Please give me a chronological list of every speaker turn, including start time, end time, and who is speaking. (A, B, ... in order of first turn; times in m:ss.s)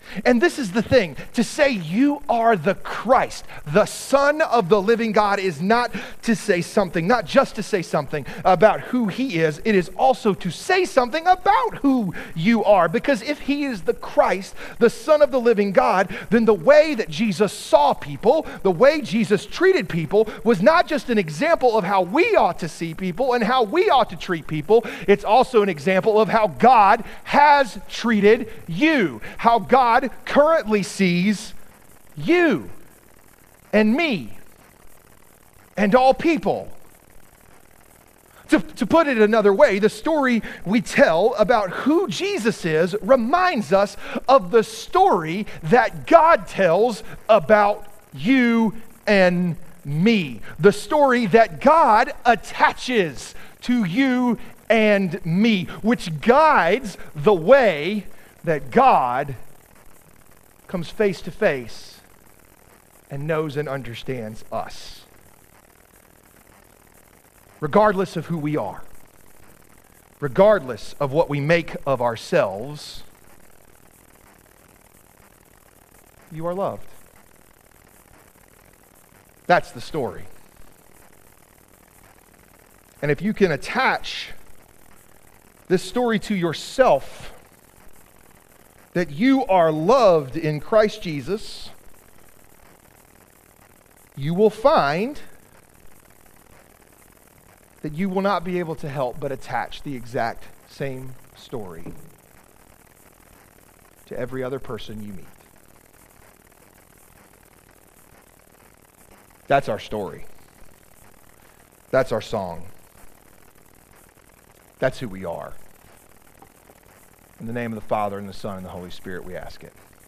0:00.2-0:31.5 A
0:32.2-0:32.7 A
0:33.7-0:34.4 A
0:35.8-0:36.8 A
0:38.5-0:59.4 A
1:00.7-1:02.0 A
1:03.1-1:05.1 A
1:07.6-1:08.8 A
1:10.2-1:13.0 A
1:16.3-1:16.9 A
1:19.5-1:20.3 A
1:23.0-1:24.3 A
1:25.7-1:27.3 A
1:28.9-1:31.7 A
1:34.2-1:35.2 A
1:37.8-1:41.9 A
1:44.0-1:45.4 A
1:49.5-1:50.3 A
1:51.9-1:52.7 A
1:54.8-1:55.6 A
1:57.4-1:59.8 A